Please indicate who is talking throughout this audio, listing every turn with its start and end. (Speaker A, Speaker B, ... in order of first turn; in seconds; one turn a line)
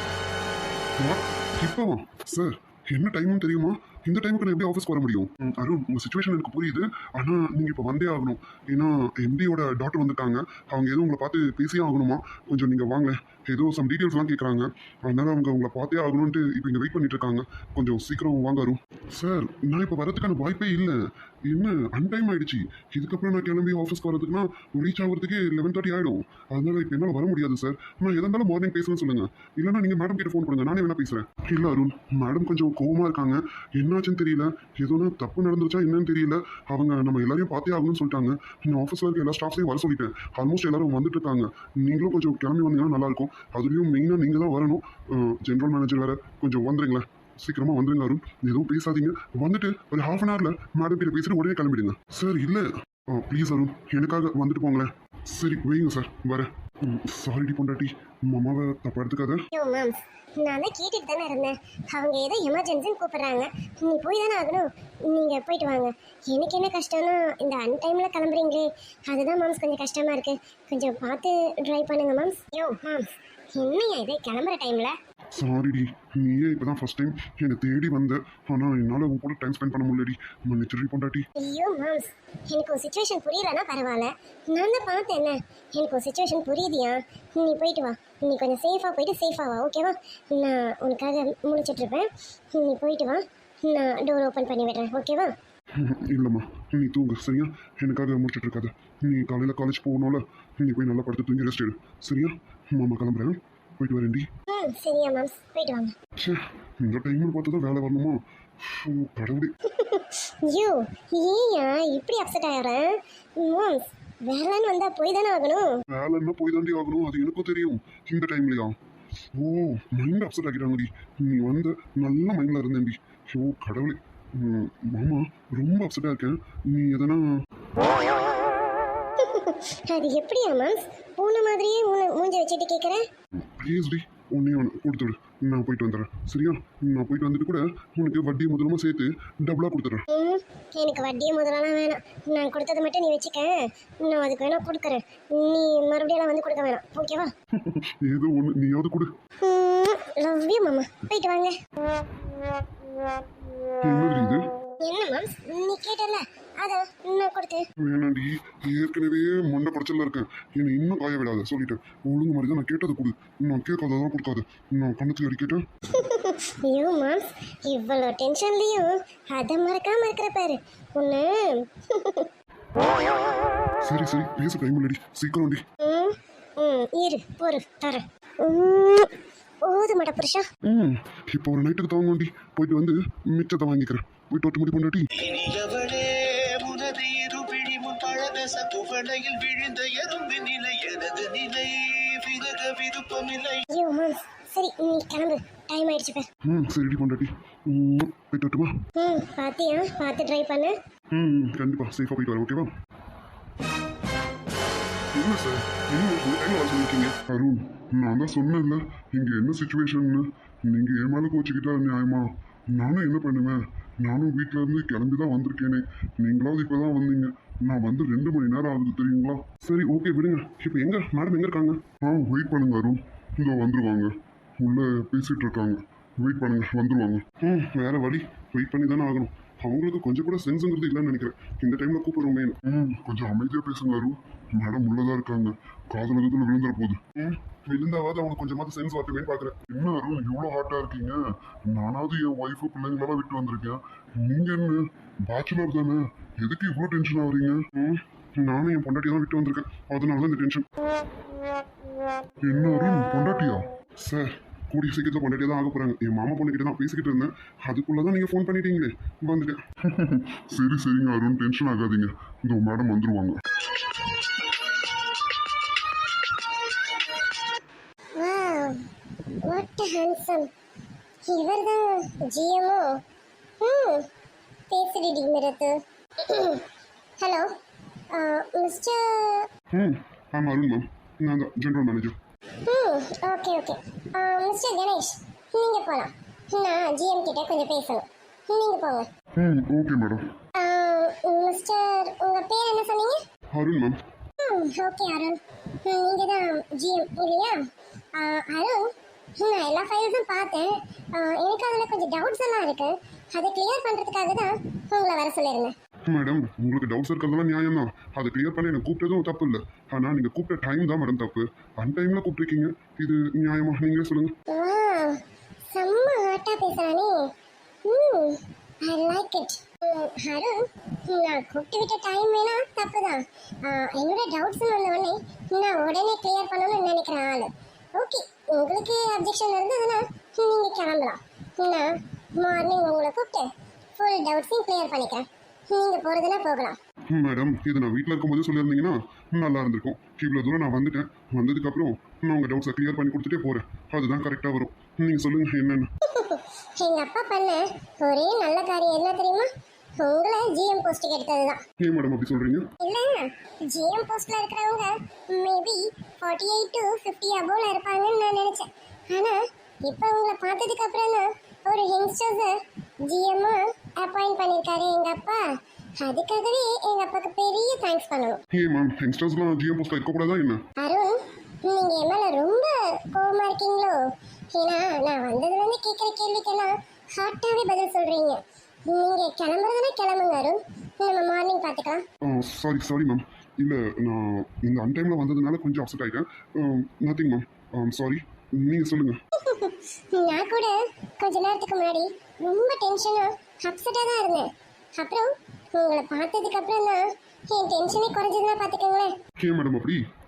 Speaker A: 1.0-59.4
Speaker B: 59.5-75.0
Speaker A: 75.3-81.2
Speaker B: 81.4-95.3
Speaker A: 95.8-104.3
Speaker B: 104.5-106.0
Speaker A: 106.2-109.5
Speaker B: 109.7-115.8
Speaker A: 115.9-118.8
Speaker A: 119.3-127.2
Speaker B: 129.2-133.1
Speaker A: 133.4-140.1
Speaker B: 140.1-147.3
Speaker A: 147.6-149.1
Speaker B: 149.4-151.6
Speaker A: 153.8-154.4
Speaker B: 154.8-157.7
Speaker A: 157.8-165.6
Speaker B: 165.9-172.3
Speaker A: 173.8-175.6
Speaker B: 175.8-179.1
Speaker B: 179.6-180.5
Speaker A: 180.7-185.1
Speaker C: 185.2-193.7
Speaker B: 193.7-196.3
Speaker A: 196.4-198.8
Speaker B: 199.0-200.8
Speaker A: 201.1-202.7
Speaker A: 205.1-250.7
Speaker A: 252.4-263.4
Speaker B: 268.2-268.9
Speaker B: 269.5-270.5
Speaker B: 271.3-273.0
Speaker B: 273.6-274.1
Speaker B: 274.7-276.7
Speaker B: 277.2-277.5
Speaker B: 278.1-279.5
Speaker A: 279.7-282.2
Speaker B: 282.6-289.1
Speaker A: 289.4-290.3
Speaker B: 290.6-293.2
Speaker A: 293.5-294.0
Speaker B: 294.4-297.6
Speaker B: 298.1-305.7
Speaker A: 306.1-314.3
Speaker B: 314.5-317.3
Speaker B: 317.9-336.8
Speaker A: 337.1-345.9
Speaker B: 346.1-351.6
Speaker A: 351.8-352.7
Speaker B: 352.8-365.4
Speaker B: 366.0-368.4
Speaker A: 368.5-370.6
Speaker B: 370.8-374.0
Speaker B: 374.5-382.0
Speaker A: 382.2-389.2
Speaker B: 389.4-399.1
Speaker A: 399.4-400.0